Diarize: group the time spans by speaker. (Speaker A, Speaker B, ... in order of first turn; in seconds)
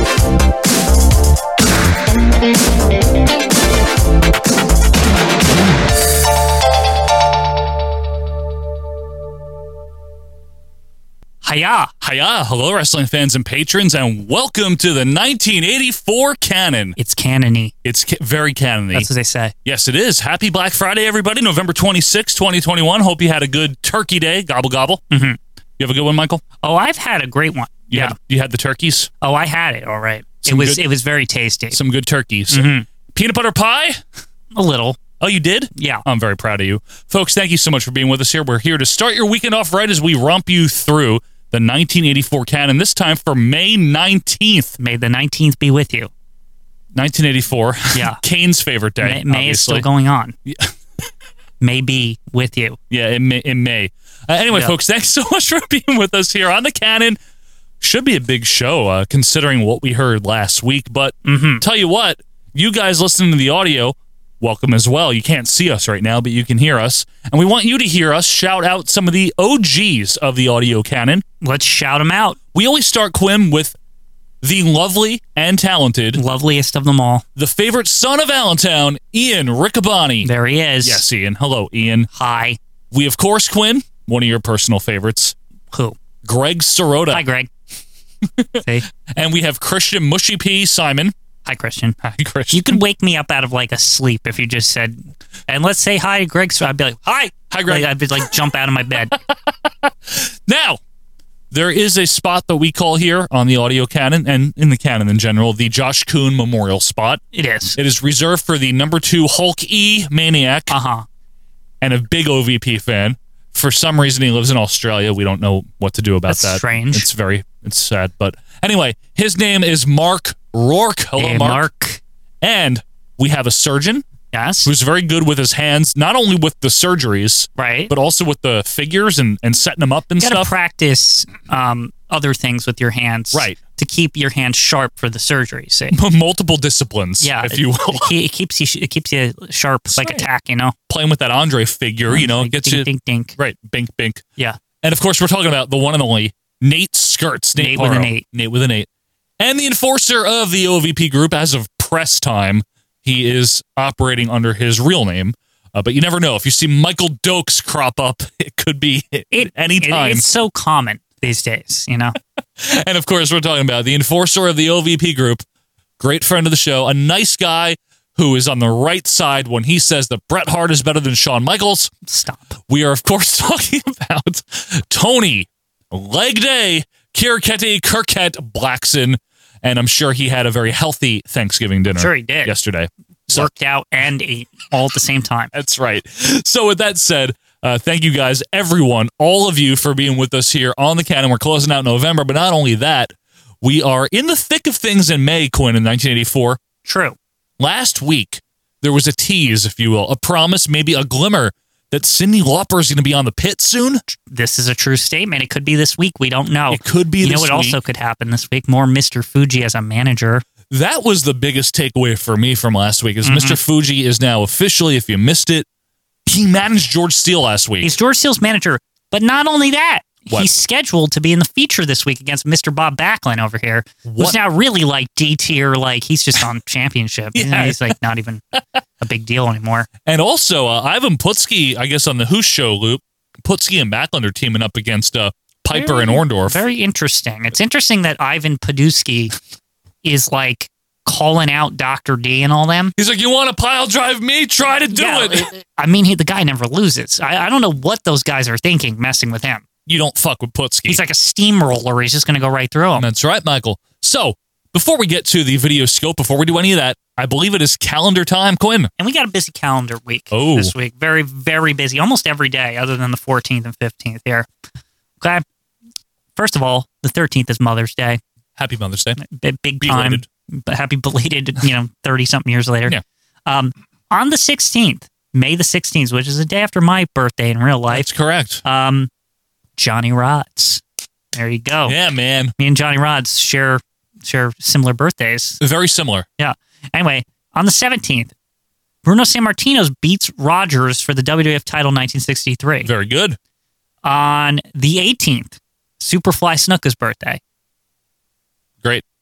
Speaker A: 11.4-11.9, 17.0-17.7, 18.9-19.5, 25.1-25.4, 26.6-28.1, 29.2-31.8, 32.5-32.9, 34.5-35.0, 35.7-36.0, 44.8-46.1, 47.9-48.2, 49.0-50.3, 51.6-52.8, 54.5-54.8, 61.2-61.6, 71.4-72.4, 76.1-77.2, 80.2-81.1, 82.1-82.6, 87.1-87.5, 91.4-92.0, 92.5-97.0, 97.7-99.1, 107.3-107.8, 110.7-111.0, 116.3-117.1, 121.2-122.0, 124.3-124.7, 127.6-127.9, 130.2-136.0, 137.2-140.7, 142.1-143.4, 147.6-148.2, 159.3-162.2, 172.1-172.6, 181.9-182.5, 183.3-185.5, 196.8-197.2, 204.3-210.4, 213.2-213.6, 217.8-228.4, 229.0-229.9, 235.7-239.3, 240.0-242.9, 244.9-249.6, 250.9-253.0, 259.0-264.5, 266.4-268.2, 269.2-278.1, 278.6-279.1, 279.8-280.8, 281.3-282.0, 282.6-285.6, 286.4-288.3, 289.0-292.9, 294.0-297.4
Speaker B: 12.0-17.0, 17.8-19.1, 19.6-25.0, 25.8-26.4, 27.9-29.1, 30.4-30.9, 31.7-34.0, 35.2-44.7, 46.9-49.9, 50.5-50.7, 52.9-57.2, 57.8-71.2, 72.5-73.8, 74.4-76.2, 77.3-80.3, 80.8-82.1, 82.9-85.3, 86.2-87.2, 88.3-91.1, 92.0-92.8, 97.0-98.3, 99.5-100.8, 101.5-107.2, 107.8-110.8, 111.8-121.7, 122.4-124.0, 124.6-130.5, 133.3-133.6, 135.9-138.1, 139.9-140.3, 140.9-144.2, 144.8-148.9, 149.4-160.2, 162.6-165.4, 166.0-171.9, 172.7-183.5, 185.5-196.6, 197.6-204.0, 206.7-207.8, 210.7-215.7, 216.2-217.9, 224.0-224.4, 227.3-227.9, 230.0-236.6, 243.0-245.5, 249.8-251.0, 252.9-258.9, 260.3-260.7, 268.6-269.2, 269.8-270.2, 277.9-278.6, 281.9-282.5, 285.6-286.2, 292.8-293.4